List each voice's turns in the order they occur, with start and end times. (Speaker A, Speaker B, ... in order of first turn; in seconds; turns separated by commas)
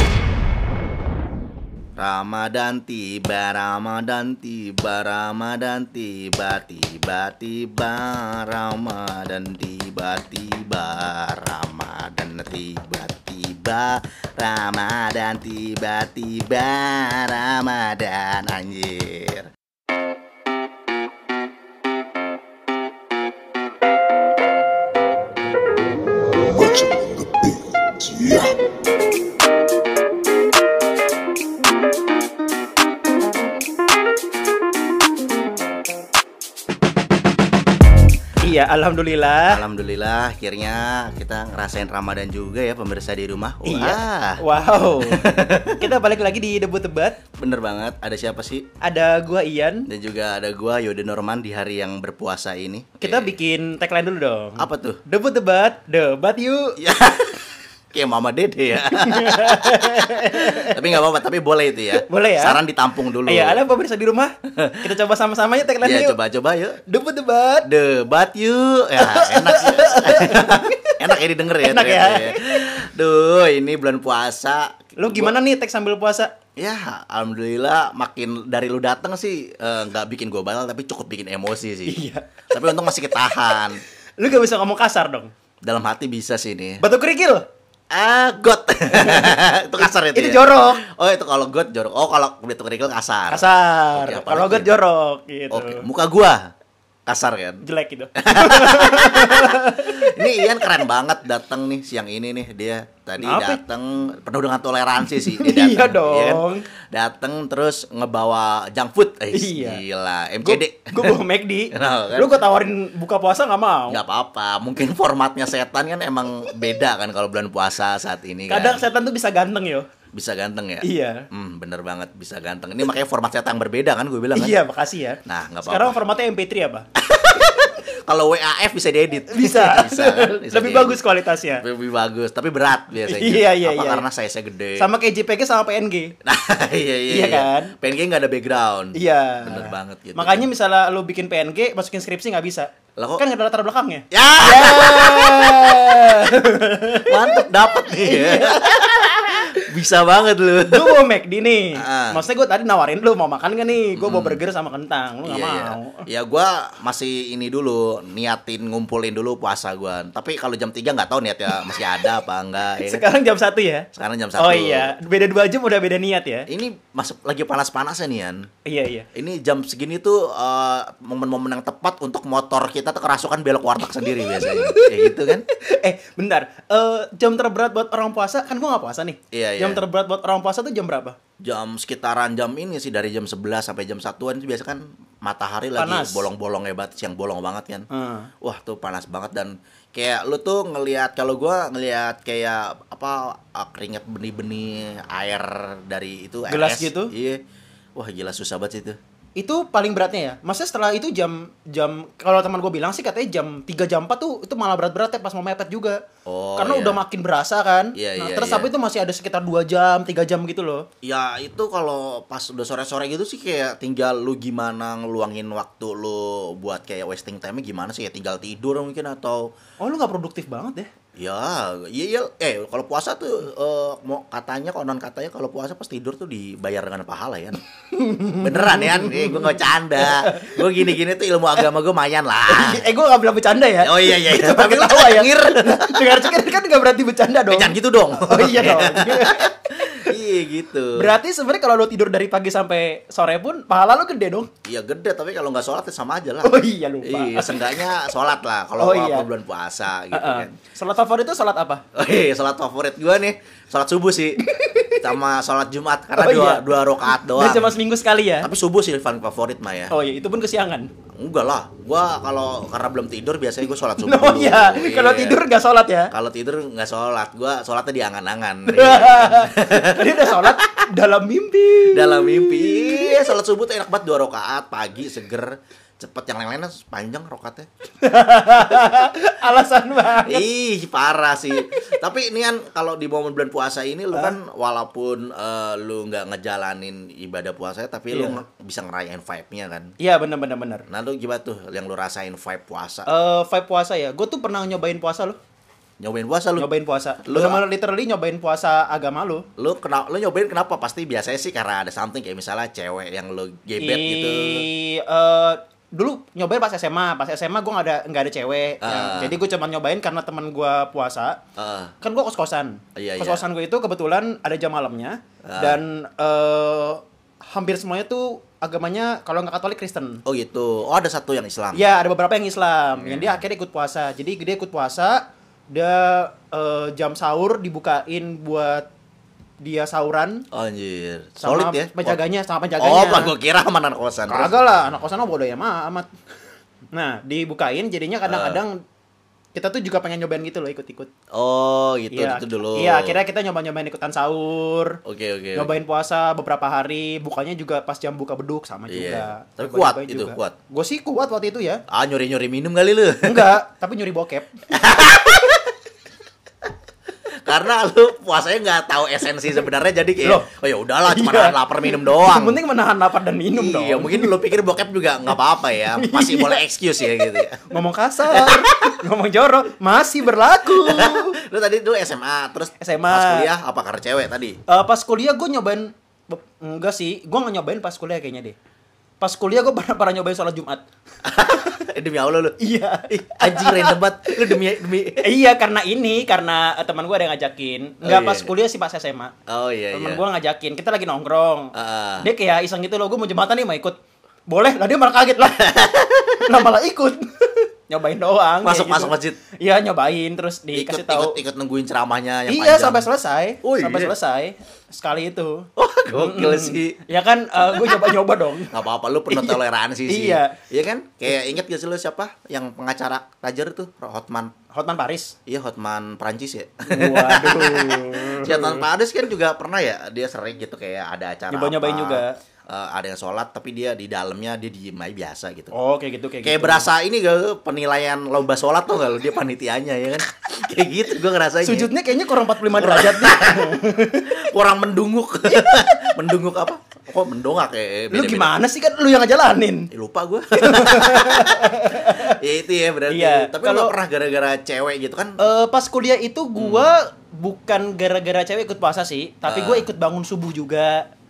Speaker A: 2.0-19.5, Speaker B: 38.4-39.6, Speaker A: 39.5-44.4, Speaker B: 43.6-47.2, Speaker A: 45.0-45.9, Speaker A: 47.4-48.7, Speaker B: 48.8-49.9, Speaker A: 49.9-53.3, Speaker B: 53.0-56.8, Speaker A: 54.6-55.0, Speaker A: 56.8-63.6, Speaker B: 58.9-60.9, Speaker B: 62.0-62.6, Speaker B: 63.2-66.2, Speaker A: 64.5-64.8, Speaker A: 65.8-66.8, Speaker B: 66.9-67.7, Speaker A: 67.6-75.4, Speaker B: 69.0-71.0, Speaker B: 71.6-72.6, Speaker B: 75.0-76.3, Speaker A: 76.6-83.8, Speaker B: 81.9-82.9, Speaker B: 84.2-85.3, Speaker A: 85.6-86.8, Speaker B: 86.8-87.5, Speaker A: 87.9-94.7, Speaker B: 88.9-90.8, Speaker B: 93.3-95.8, Speaker A: 95.5-96.5, Speaker A: 97.1-97.6, Speaker B: 97.6-100.6, Speaker A: 98.2-111.2, Speaker B: 103.2-103.6, Speaker B: 105.1-106.7, Speaker B: 109.3-109.8, Speaker B: 110.4-114.0, Speaker A: 111.7-112.4, Speaker A: 113.9-118.8, Speaker B: 118.5-119.9, Speaker A: 120.1-124.6, Speaker B: 120.8-121.2, Speaker B: 124.3-126.9, Speaker A: 125.2-126.0, Speaker A: 127.0-131.0, Speaker B: 129.3-131.6, Speaker A: 131.6-134.9, Speaker B: 133.0-134.0, Speaker B: 134.8-136.2, Speaker A: 136.2-140.5, Speaker B: 137.1-137.7, Speaker B: 138.9-149.7, Speaker A: 143.0-143.2, Speaker A: 144.1-146.3, Speaker A: 146.9-151.0, Speaker B: 150.7-156.1, Speaker A: 151.8-152.2, Speaker A: 153.9-154.4, Speaker A: 155.2-163.0, Speaker B: 161.6-161.9, Speaker B: 162.8-166.5, Speaker A: 163.9-164.9, Speaker A: 166.5-168.5, Speaker B: 168.7-169.1, Speaker A: 169.1-175.4, Speaker B: 174.0-181.2, Speaker A: 179.3-179.8, Speaker A: 181.4-187.9, Speaker B: 185.8-186.3, Speaker B: 187.9-188.3, Speaker A: 188.4-197.4, Speaker B: 196.5-197.1, Speaker A: 198.0-199.0, Speaker B: 199.4-206.0, Speaker A: 206.3-207.0, Speaker B: 206.6-210.9, Speaker A: 207.9-208.7, Speaker A: 211.0-219.5, Speaker B: 219.8-220.9, Speaker A: 221.2-227.6, Speaker B: 227.9-230.9, Speaker A: 228.3-232.9, Speaker B: 232.5-240.2, Speaker A: 233.8-236.3, Speaker A: 237.5-241.1, Speaker B: 241.0-244.5, Speaker A: 244.7-250.5, Speaker B: 246.4-247.9, Speaker B: 248.8-249.3, Speaker B: 250.1-251.8, Speaker A: 251.9-254.4, Speaker B: 254.4-255.1, Speaker A: 255.0-257.7, Speaker B: 256.1-258.5, Speaker A: 258.4-259.9, Speaker B: 259.9-260.9, Speaker A: 261.1-265.4, Speaker B: 263.9-266.1, Speaker A: 266.1-270.8, Speaker B: 268.6-273.3, Speaker A: 271.9-277.7, Speaker B: 278.0-280.5, Speaker A: 280.2-289.9, Speaker B: 284.1-284.4, Speaker B: 288.1-288.4, Speaker B: 290.0-290.9, Speaker A: 290.9-293.1, Speaker B: 293.1-295.4, Speaker A: 296.0-296.7, Speaker B: 296.6-299.4, Speaker A: 297.2-297.6, Speaker A: 299.6-304.6, Speaker B: 303.8-311.4, Speaker A: 308.8-309.3, Speaker A: 311.6-311.9, Speaker B: 312.0-320.2, Speaker A: 312.9-313.4, Speaker A: 315.4-315.8, Speaker A: 320.2-321.8, Speaker B: 321.7-328.9, Speaker A: 322.9-323.4, Speaker B: 329.6-330.4, Speaker A: 330.5-332.2, Speaker B: 331.4-333.3, Speaker A: 332.8-334.5, Speaker B: 334.3-336.1, Speaker B: 336.9-338.8, Speaker A: 338.2-338.6, Speaker B: 339.5-341.1, Speaker A: 341.3-343.2, Speaker B: 342.1-345.0, Speaker A: 345.0-345.7, Speaker B: 345.5-351.8, Speaker A: 348.9-350.5, Speaker A: 351.9-353.5, Speaker B: 353.2-354.5, Speaker A: 354.7-355.6, Speaker A: 357.4-362.6, Speaker B: 360.2-360.5, Speaker B: 361.0-364.4, Speaker A: 363.5-367.7, Speaker B: 365.8-366.6, Speaker B: 367.2-371.4, Speaker A: 368.3-369.0, Speaker A: 370.7-374.6, Speaker B: 372.8-373.5, Speaker B: 374.7-378.6, Speaker B: 379.2-380.8, Speaker A: 381.2-385.3, Speaker B: 382.6-384.6, Speaker B: 385.2-389.3, Speaker A: 388.0-388.5, Speaker A: 389.5-390.2, Speaker B: 389.9-393.9, Speaker A: 391.7-392.3, Speaker B: 394.5-401.4, Speaker A: 395.4-396.6, Speaker A: 398.6-399.4, Speaker A: 400.7-403.1, Speaker B: 402.5-408.7, Speaker A: 403.6-404.1, Speaker A: 405.8-407.0, Speaker A: 407.7-408.1, Speaker A: 408.7-414.5, Speaker B: 409.3-410.6, Speaker B: 414.7-415.3, Speaker A: 415.4-425.7, Speaker B: 416.9-418.9, Speaker B: 421.5-422.4, Speaker B: 425.7-426.9, Speaker A: 426.4-431.9, Speaker B: 431.6-434.3, Speaker A: 432.7-438.5, Speaker B: 435.4-435.9, Speaker B: 438.1-439.9, Speaker A: 439.9-445.4, Speaker B: 440.5-442.4, Speaker B: 443.1-443.9, Speaker B: 445.4-451.1, Speaker A: 446.6-446.9, Speaker A: 449.4-449.9